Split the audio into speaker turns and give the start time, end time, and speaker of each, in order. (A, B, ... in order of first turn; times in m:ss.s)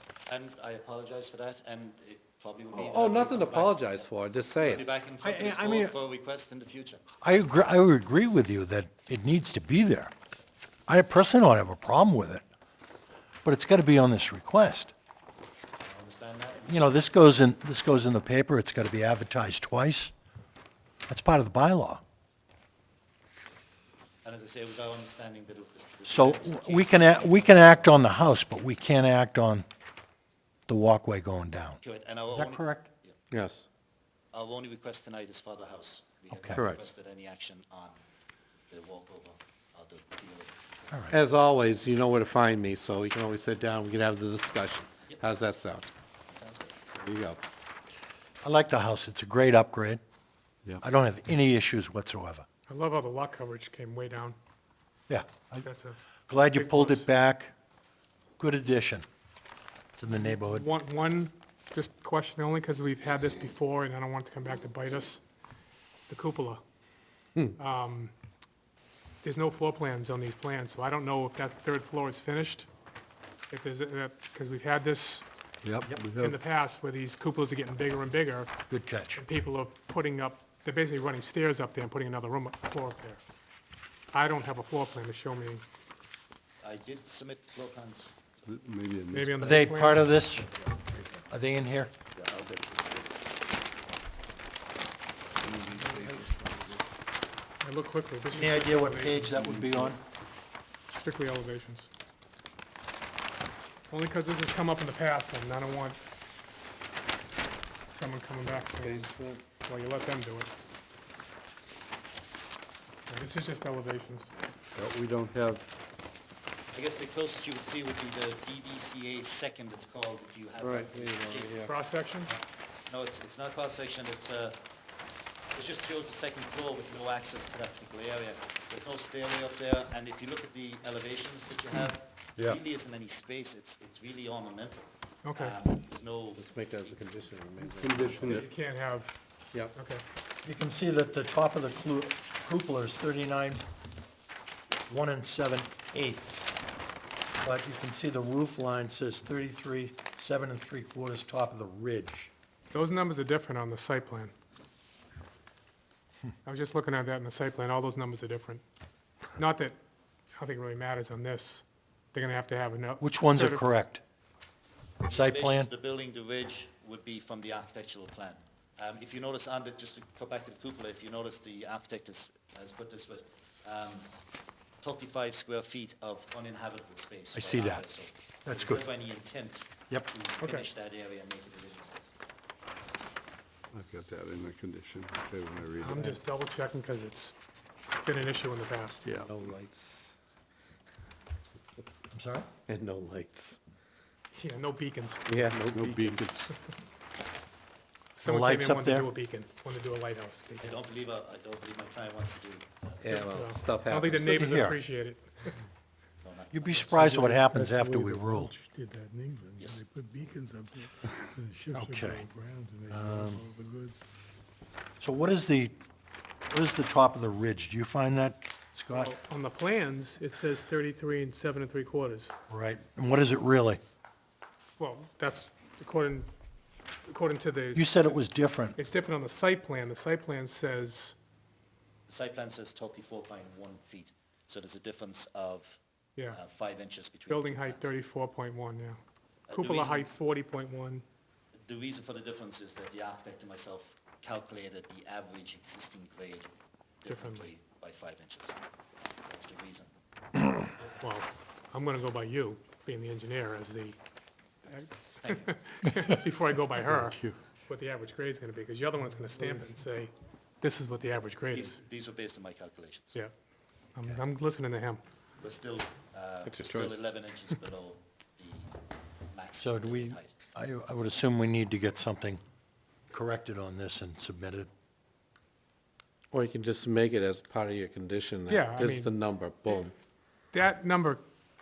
0:00.3-0:04.0 A
0:02.7-0:04.9 B
0:04.6-0:07.0 A
0:05.2-0:05.9 C
0:07.2-0:10.1 C
0:10.9-0:12.4 C
0:13.4-0:14.9 C
0:15.8-0:16.9 A
0:16.7-0:20.1 C
0:21.1-0:22.0 C
0:24.2-0:28.0 A
0:26.1-0:29.6 C
0:30.7-0:31.8 C
0:31.8-0:33.2 A
0:32.3-0:32.9 C
0:33.3-0:33.7 B
0:34.3-0:38.0 A
0:36.3-0:36.6 C
0:36.5-0:36.8 B
0:38.7-0:40.9 A
0:40.9-0:41.2 C
0:41.1-0:45.9 B
0:46.3-0:46.8 A
0:46.9-0:47.4 B
0:48.4-0:50.0 C
0:50.8-0:52.4 C
0:52.7-0:54.4 D
0:55.1-0:55.7 C
0:55.6-0:56.0 D
0:56.3-0:57.5 C
0:56.5-0:57.1 D
0:58.4-0:59.0 C
1:00.0-1:00.7 C
1:00.1-1:05.2 D
1:06.1-1:06.6 D
1:07.6-1:08.1 D
1:09.2-1:12.7 D
1:13.5-1:15.2 D
1:15.7-1:16.3 B
1:15.7-1:16.0 C
1:16.1-1:18.5 D
1:18.7-1:19.2 C
1:19.1-1:23.2 D
1:24.1-1:25.6 D
1:26.6-1:28.4 A
1:28.5-1:29.4 E
1:29.1-1:30.1 D
1:29.4-1:30.5 C
1:31.3-1:31.9 C
1:32.2-1:33.0 A
1:35.4-1:36.7 E
1:37.6-1:39.9 D
1:38.3-1:40.0 C
1:40.9-1:41.9 D
1:43.9-1:46.0 D
1:47.9-1:50.5 D
1:48.7-1:49.5 B
1:53.1-1:54.3 D
1:54.8-1:55.6 B
1:56.7-2:01.7 A
2:00.6-2:01.7 B
2:01.6-2:02.3 D
2:02.3-2:04.6 A
2:05.5-2:14.8 A
2:15.2-2:15.6 D
2:15.4-2:16.4 A
2:16.4-2:18.4 B
2:17.6-2:18.5 E
2:18.3-2:19.2 D
2:19.7-2:20.0 D
2:20.4-2:23.6 C
2:24.9-2:26.5 C
2:27.4-2:32.3 C
2:32.7-2:34.3 D
2:36.4-2:38.6 D
2:39.4-2:39.8 D
2:40.4-2:43.7 D
2:43.0-2:44.0 C
2:45.0-2:45.7 C
2:45.1-2:54.1 A
2:54.8-3:02.1 A
2:57.3-2:57.8 C
2:58.4-2:58.8 C
3:00.4-3:00.7 D
3:03.7-3:06.2 E
3:05.8-3:07.3 D
3:08.0-3:09.1 D
3:09.0-3:09.3 E
3:09.2-3:10.1 B
3:12.1-3:12.5 C
3:12.7-3:13.6 B
3:14.3-3:15.4 D
3:15.3-3:16.3 B
3:15.7-3:16.5 E
3:18.2-3:20.8 D
3:18.2-3:19.1 C
3:20.6-3:23.2 A
3:23.0-3:24.6 B
3:23.1-3:25.6 D
3:24.2-3:24.8 C
3:26.2-3:27.2 A
3:26.5-3:28.5 C
3:27.0-3:34.0 F
3:29.6-3:29.8 A
3:31.7-3:32.3 C
3:32.9-3:33.4 C
3:35.0-3:35.8 C
3:36.5-3:39.1 C
3:38.9-3:42.3 D
3:42.5-3:43.8 C
3:44.8-3:46.3 D
3:47.1-3:48.2 D
3:47.8-3:48.8 C
3:48.8-3:51.2 D
3:52.1-3:55.8 A
3:56.3-3:57.9 A
3:57.3-3:59.0 D
3:59.5-4:00.1 A
3:59.5-4:01.0 D
4:01.5-4:06.5 A
4:07.0-4:08.6 A
4:07.1-4:07.5 D
4:09.3-4:09.9 A
4:10.8-4:11.0 A
4:11.0-4:14.0 D
4:14.7-4:21.8 D
4:15.2-4:15.5 A
4:21.5-4:23.2 A
4:24.0-4:25.0 D
4:25.4-4:28.7 A
4:26.4-4:27.0 B
4:29.3-4:30.3 A
4:29.6-4:32.4 C
4:33.1-4:34.7 C
4:36.3-4:39.9 B
4:38.5-4:39.1 D
4:40.5-4:41.2 D